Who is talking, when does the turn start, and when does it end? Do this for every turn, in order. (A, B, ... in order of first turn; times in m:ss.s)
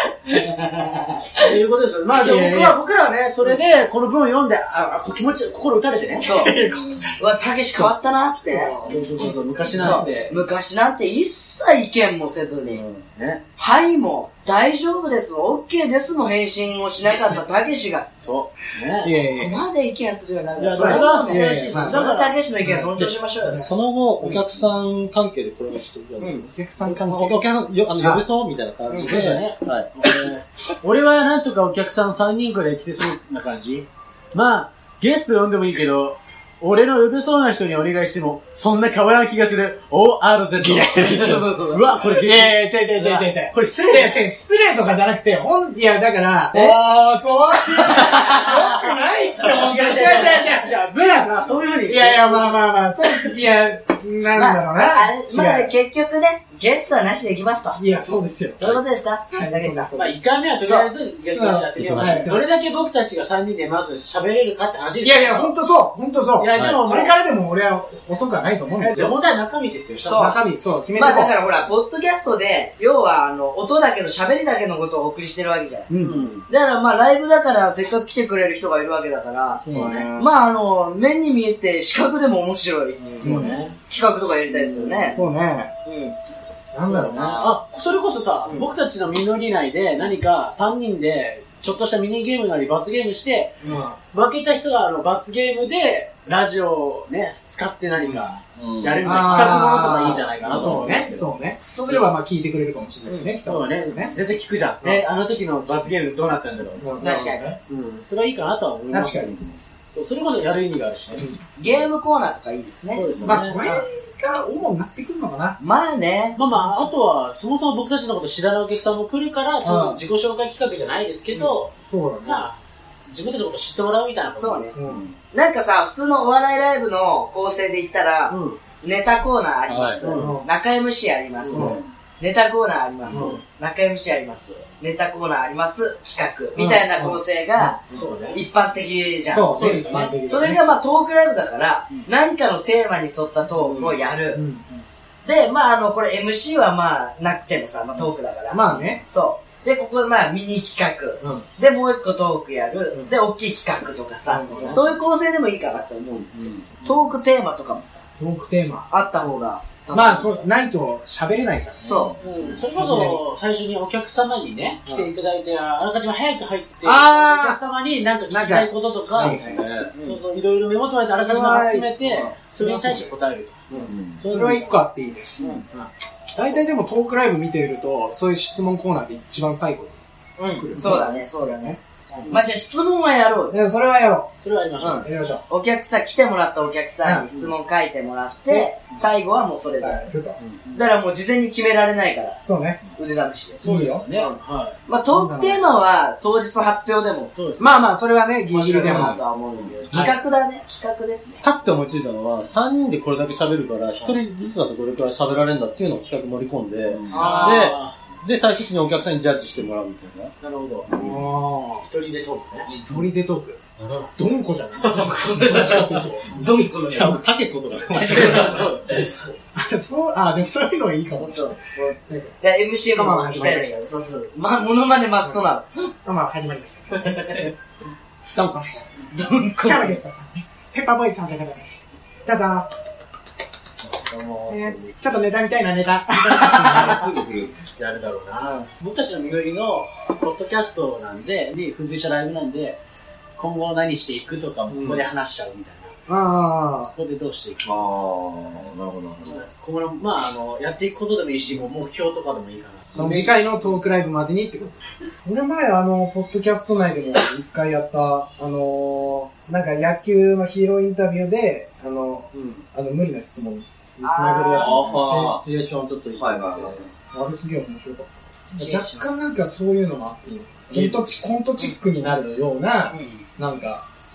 0:00.3-0:01.5 A
0:01.4-0:06.4 B
0:02.2-0:02.8 C
0:06.2-0:07.1 C
0:06.2-0:06.6 A
0:07.2-0:08.8 A
0:08.4-0:10.2 C
0:08.8-0:10.4 B
0:09.7-0:12.8 A
0:12.7-0:13.4 B
0:13.6-0:18.0 A
0:18.2-0:19.2 B
0:19.0-0:19.6 C
0:19.3-0:23.6 A
0:20.6-0:22.4 B
0:20.7-0:22.1 C
0:22.6-0:22.9 C
0:22.9-0:29.9 D
0:26.2-0:26.5 A
0:26.5-0:27.4 C
0:28.0-0:28.2 C
0:28.9-0:44.3 B
0:40.6-0:55.7 C
0:41.2-0:41.8 A
0:46.5-0:46.8 A
0:47.8-0:48.5 A
0:49.4-0:52.6 B
0:54.3-0:57.8 A
0:57.8-1:00.2 C
0:58.6-0:59.9 A
1:00.0-1:05.5 B
1:01.3-1:02.5 C
1:01.8-1:02.3 D
1:05.0-1:09.2 C
1:06.4-1:07.2 B
1:06.5-1:06.8 D
1:08.8-1:10.2 B
1:10.0-1:10.4 A
1:10.1-1:11.3 C
1:11.0-1:15.9 A
1:15.9-1:16.3 C
1:16.0-1:16.4 B
1:16.5-1:19.6 A
1:19.6-1:20.1 B
1:19.6-1:20.3 C
1:20.2-1:25.2 A
1:23.0-1:23.8 B
1:23.2-1:23.6 C
1:24.6-1:25.2 B
1:25.1-1:25.7 C
1:25.8-1:26.2 A
1:26.7-1:27.6 C
1:26.8-1:33.6 B
1:33.6-1:34.0 C
1:34.1-1:42.1 B
1:38.5-1:39.6 E
1:39.0-1:44.1 C
1:40.5-1:40.9 E
1:43.4-1:49.4 B
1:46.8-1:47.6 C
1:47.0-1:47.4 A
1:48.9-1:49.3 C
1:49.3-1:49.6 E
1:49.9-1:51.3 B
1:51.1-1:51.4 C
1:51.6-1:53.9 A
1:52.9-1:53.6 B
1:53.2-1:55.6 C
1:55.6-1:56.4 A
1:56.3-2:04.7 B
1:56.5-1:56.9 C
1:59.6-2:00.0 C
2:01.3-2:02.5 C
2:04.4-2:04.8 A
2:04.7-2:05.0 C
2:04.8-2:05.2 E
2:05.3-2:17.8 A
2:08.3-2:08.6 B
2:09.7-2:10.0 D
2:10.0-2:10.4 B
2:10.1-2:10.5 C
2:11.4-2:11.8 B
2:11.5-2:11.8 C
2:11.5-2:11.9 E
2:13.1-2:13.4 C
2:13.1-2:13.4 B
2:16.6-2:17.8 C
2:17.9-2:18.4 B
2:18.3-2:24.4 A
2:19.3-2:20.7 C
2:19.5-2:20.1 B
2:23.6-2:24.0 B
2:24.3-2:24.8 C
2:25.2-2:38.0 A
2:28.5-2:29.0 C
2:31.2-2:31.4 C
2:34.2-2:34.9 C
2:34.5-2:34.8 B
2:38.2-2:38.9 C
2:38.9-2:40.4 A
2:39.9-2:43.2 C
2:41.8-2:42.5 A
2:42.2-2:49.4 B
2:46.8-2:47.6 C
2:48.3-2:49.6 C
2:49.2-2:49.9 D
2:49.9-2:50.2 A
2:50.0-2:54.8 B
2:51.2-2:53.1 C
2:53.7-3:00.0 C
2:53.9-2:54.2 E
2:55.4-2:55.6 A
3:00.4-3:03.6 A
3:00.5-3:01.7 C
3:03.5-3:04.3 C
3:04.4-3:05.1 B
3:04.8-3:10.0 A
3:05.0-3:05.4 C
3:07.0-3:07.3 C
3:09.8-3:10.4 C
3:10.4-3:10.8 B
3:10.7-3:13.6 A
3:12.4-3:12.8 C
3:13.6-3:14.1 C
3:13.6-3:14.8 B
3:14.1-3:17.3 A
3:15.1-3:15.6 C
3:17.3-3:17.8 B
3:17.6-3:19.2 C
3:18.5-3:21.4 A
3:21.4-3:30.3 D
3:26.9-3:27.2 E
3:27.1-3:28.0 B
3:27.1-3:27.8 A
3:30.4-3:31.0 B
3:30.9-3:31.9 C
3:31.8-3:33.0 B
3:32.7-3:33.6 C
3:33.8-3:34.2 B
3:34.2-3:36.5 C
3:34.8-3:35.8 B
3:34.9-3:37.2 A
3:36.8-3:38.7 D
3:37.9-3:39.3 A
3:38.1-3:39.2 B
3:39.5-3:42.3 C
3:41.2-3:45.9 A
3:42.9-3:43.8 C
3:46.0-3:47.5 C
3:47.0-3:47.4 A
3:48.3-3:48.9 C
3:49.1-3:50.0 A
3:49.6-3:51.7 C
3:52.2-3:52.7 C
3:53.8-3:54.9 B
3:54.5-3:57.0 C
3:56.3-3:57.7 E
3:57.8-4:02.8 B
4:03.4-4:06.0 B
4:06.1-4:06.9 C
4:06.9-4:07.9 B
4:07.6-4:09.4 E
4:09.2-4:13.4 B
4:12.9-4:25.1 C
4:24.0-4:24.8 A
4:24.6-4:25.4 E
4:24.7-4:26.9 D
4:26.1-4:26.9 E
4:27.1-4:33.8 C
4:28.5-4:29.1 A
4:30.7-4:31.1 B
4:32.9-4:33.2 A